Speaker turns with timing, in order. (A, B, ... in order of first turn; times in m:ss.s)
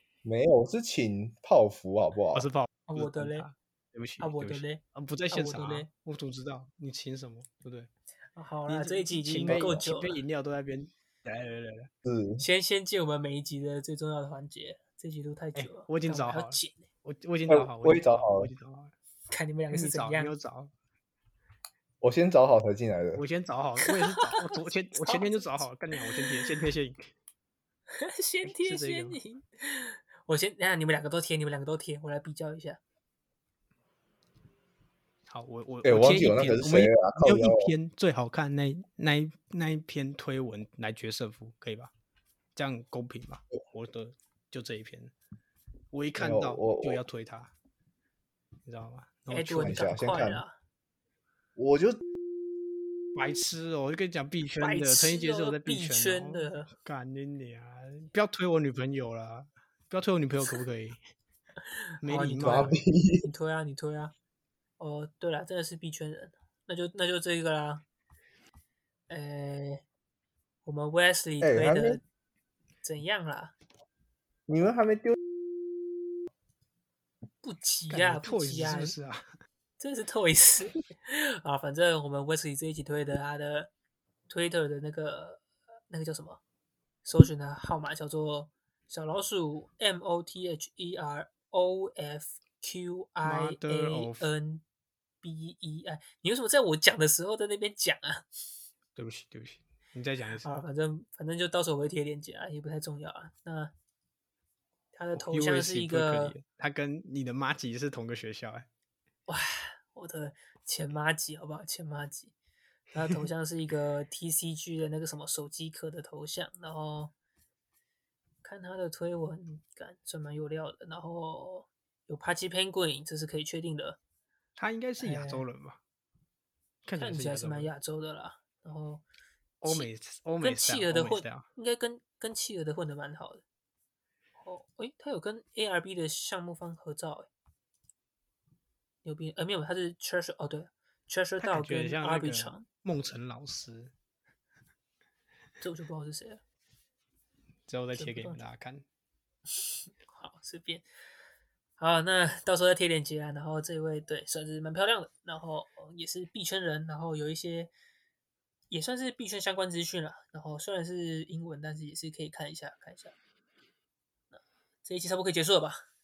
0:00.2-0:02.5 A
0:02.3-0:07.9 B
0:02.9-0:03.5 C
0:04.2-0:05.9 C
0:08.4-0:10.2 C
0:08.7-0:11.9 B
0:09.4-0:09.8 A
0:12.0-0:12.4 A
0:12.4-0:16.9 C
0:15.6-0:18.9 B
0:17.5-0:18.5 A
0:19.3-0:20.3 C
0:19.7-0:20.7 B
0:22.0-0:23.2 A
0:23.2-0:27.1 B
0:23.8-0:26.5 C
0:27.9-0:32.8 C
0:28.4-0:29.2 B
0:35.3-0:41.9 B
0:35.8-0:37.7 A
0:42.6-0:45.1 B
0:45.9-0:47.5 B
0:46.2-0:47.0 A
0:48.6-0:49.9 B
0:49.3-0:50.5 C
0:49.6-0:50.4 A
0:51.6-0:52.0 A
0:53.1-1:01.0 B
0:54.6-0:56.7 C
1:01.7-1:04.1 C
1:02.0-1:02.8 B
1:02.4-1:03.3 A
1:04.8-1:07.8 C
1:09.1-1:09.8 C
1:10.6-1:12.0 C
1:11.4-1:12.0 A
1:12.8-1:13.5 C
1:14.5-1:15.2 A
1:17.4-1:19.0 C
1:17.9-1:19.2 B
1:19.8-1:23.7 C
1:24.3-1:26.4 C
1:27.0-1:34.6 C
1:33.2-1:34.3 B
1:35.2-1:38.3 C
1:39.0-1:40.6 B
1:40.4-1:43.7 C
1:44.9-1:46.4 C
1:45.2-1:48.7 B
1:49.3-1:52.3 C
1:52.9-1:57.1 C
1:58.4-2:04.0 C
2:04.6-2:05.8 B
2:05.0-2:05.4 C
2:06.8-2:07.7 B
2:07.0-2:09.0 C
2:09.6-2:11.4 B
2:10.4-2:13.4 C
2:14.4-2:17.3 C
2:19.0-2:22.6 C
2:21.4-2:23.9 B
2:25.6-2:26.4 C
2:27.7-2:28.8 B
2:27.9-2:28.4 C
2:29.6-2:30.8 C
2:31.8-2:37.7 C
2:38.7-2:43.1 C
2:44.3-2:45.8 C